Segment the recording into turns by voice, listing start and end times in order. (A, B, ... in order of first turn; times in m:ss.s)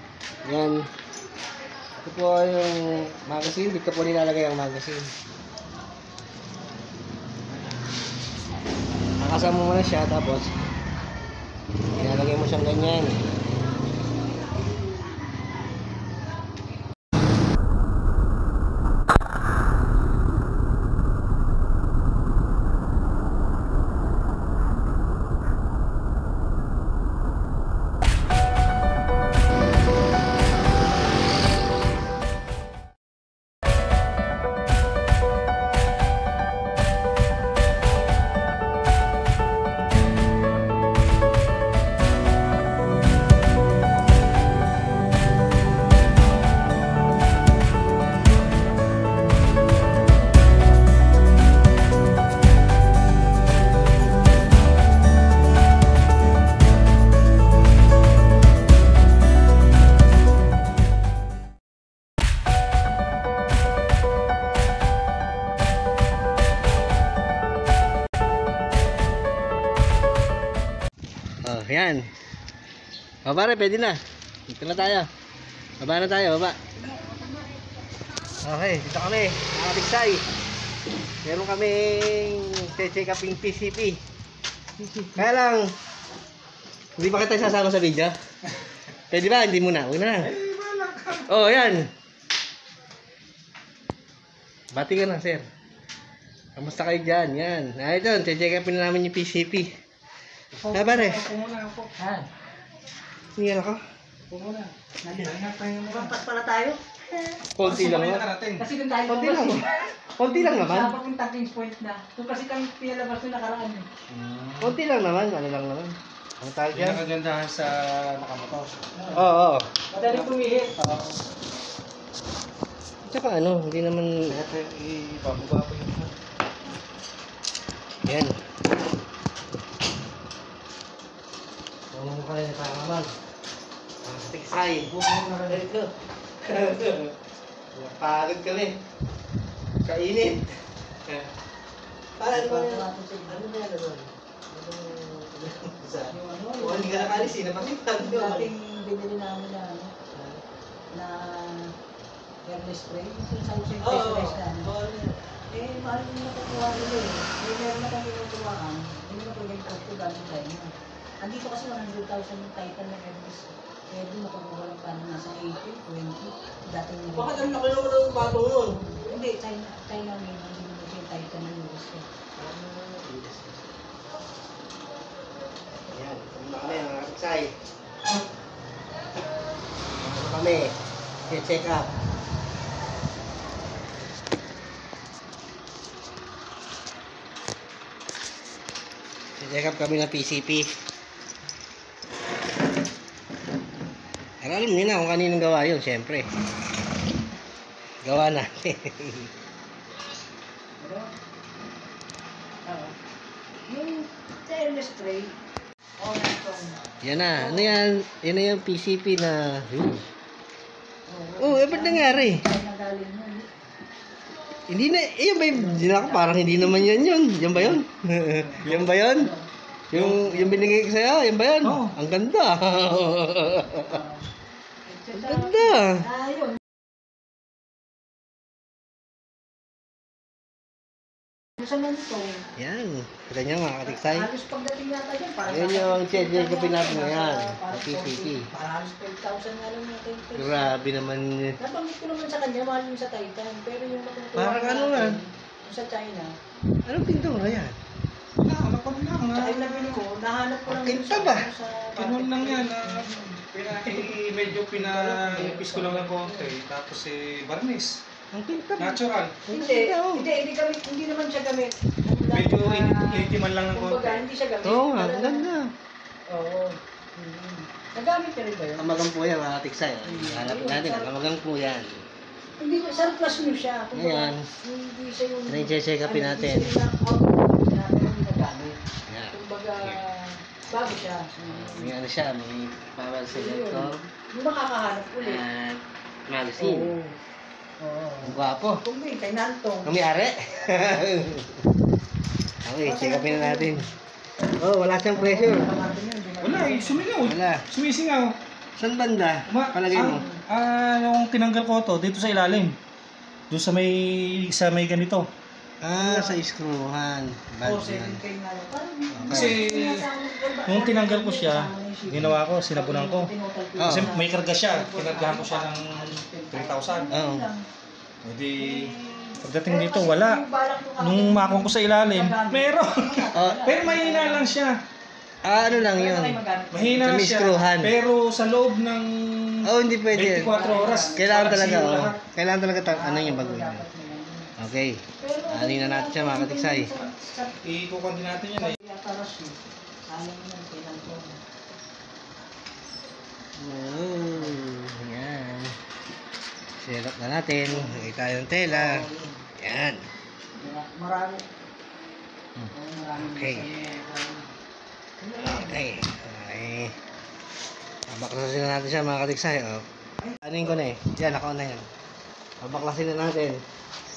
0:00.4-0:00.9 A
0:02.0-0:05.1 A
0:09.2-0:10.6 A
0:12.0-0:13.2 A
1:11.4-1:12.1 A
1:13.2-1:15.1 A
1:15.8-1:16.6 A
1:16.9-1:17.4 B
1:18.4-1:20.2 A
1:21.2-1:24.0 A
1:24.8-1:25.7 A
1:27.0-1:28.2 A
1:29.1-1:30.3 A
1:30.2-1:31.3 C
1:31.2-1:31.9 A
1:34.7-1:35.4 A
1:36.6-1:39.7 A
1:40.5-1:41.9 C
1:40.7-1:41.2 A
1:42.0-1:42.3 B
1:43.4-1:43.8 A
1:44.3-1:46.1 C
1:45.0-1:45.4 B
1:45.9-1:46.8 B
1:47.5-1:48.3 A
1:47.6-1:48.6 C
1:48.6-1:53.9 B
1:49.1-1:51.0 A
1:54.1-1:54.8 C
1:54.6-1:57.0 A
1:56.7-1:59.3 C
1:59.1-1:59.7 A
1:59.9-2:00.7 B
2:00.0-2:01.2 C
2:03.0-2:04.4 A
2:04.3-2:06.1 C
2:08.0-2:08.4 A
2:11.9-2:13.1 A
2:14.0-2:15.9 A
2:14.9-2:15.6 C
2:16.4-2:17.1 A
2:17.7-2:18.8 A
2:19.8-2:21.3 A
2:22.2-2:28.5 A
2:22.3-2:23.4 B
2:26.1-2:29.9 B
2:30.1-2:30.4 A
2:30.9-2:31.7 B
2:32.4-2:34.7 B
2:33.8-2:35.2 A
2:35.5-2:52.0 B
2:47.1-2:48.8 A
2:52.4-2:53.7 A
2:55.9-2:57.6 A
2:59.9-3:00.7 A
3:01.3-3:01.9 A
3:09.4-3:10.7 A
3:14.4-3:16.3 A
3:18.0-3:19.3 A
3:20.8-3:21.1 B
3:22.6-3:23.0 B
3:23.7-3:25.3 B
3:26.0-3:26.8 B
3:27.0-3:30.1 A
3:27.4-3:27.8 B
3:31.1-3:33.5 B
3:31.4-3:32.4 A
3:34.7-3:39.3 A
3:35.5-3:36.9 B
3:38.6-3:39.5 B
3:39.9-3:44.0 A
3:39.9-3:40.4 C
3:41.6-3:42.0 C
3:43.7-3:44.2 B
3:44.8-3:46.6 B
3:45.2-3:46.1 A
3:51.6-3:52.4 B
3:52.6-3:54.3 A
3:53.8-4:00.8 B
3:55.5-3:58.5 A
4:00.3-4:01.6 A
4:01.6-4:06.3 B
4:04.4-4:05.2 A
4:06.8-4:07.8 A
4:08.4-4:10.0 C
4:09.3-4:16.5 B
4:10.7-4:11.5 A
4:12.0-4:18.0 C
4:18.3-4:20.3 A
4:18.8-4:19.4 C
4:19.5-4:25.5 B
4:22.3-4:24.2 C
4:24.6-4:25.7 A
4:26.3-4:28.9 B
4:28.8-4:32.0 A
4:30.0-4:31.1 B
4:32.6-4:38.8 B
4:33.9-4:34.5 A
4:35.5-4:36.7 A
4:39.1-4:40.0 A
4:39.3-4:41.9 B
4:41.4-4:44.0 A
4:43.3-4:45.4 B
4:45.2-4:46.9 A
4:46.6-4:47.2 B
4:47.8-4:50.0 B
4:48.2-4:48.8 A
4:49.8-4:51.6 A
4:52.6-4:53.8 A
4:52.8-4:53.9 B
4:54.5-4:55.7 A
4:55.1-4:57.0 B
4:56.4-4:58.3 C
4:57.2-4:57.6 A
4:58.8-5:00.2 A
4:59.5-5:02.8 C
5:00.1-5:00.4 B
5:03.5-5:05.3 C
5:05.8-5:08.2 A
5:05.9-5:06.4 B
5:07.6-5:17.6 B
5:09.1-5:09.6 A
5:09.3-5:10.0 C
5:10.7-5:13.3 C
5:13.8-5:14.1 A
5:13.8-5:17.1 C
5:17.1-5:17.5 A
5:18.2-5:20.4 C
5:18.6-5:24.5 B
5:21.0-5:24.7 C
5:23.3-5:23.6 A
5:25.4-5:26.4 A
5:25.4-5:27.2 B
5:26.7-5:32.2 C
5:26.9-5:27.9 A
5:29.6-5:30.6 A
5:30.4-5:31.5 B
5:31.1-5:33.8 A
5:32.9-5:34.5 B
5:34.6-5:36.9 A
5:35.2-5:37.6 B
5:37.6-5:38.8 C
5:38.6-5:41.4 B
5:43.6-5:45.8 A
5:46.8-5:49.0 A
5:47.7-5:48.1 B
5:48.6-5:49.4 B
5:49.6-5:50.0 A
5:50.6-5:51.4 B
5:52.6-5:53.8 A
5:52.7-5:54.5 B
5:55.2-5:55.8 B
5:55.4-5:56.9 A
5:58.1-5:59.8 A
6:00.4-6:01.8 A
6:02.6-6:03.6 A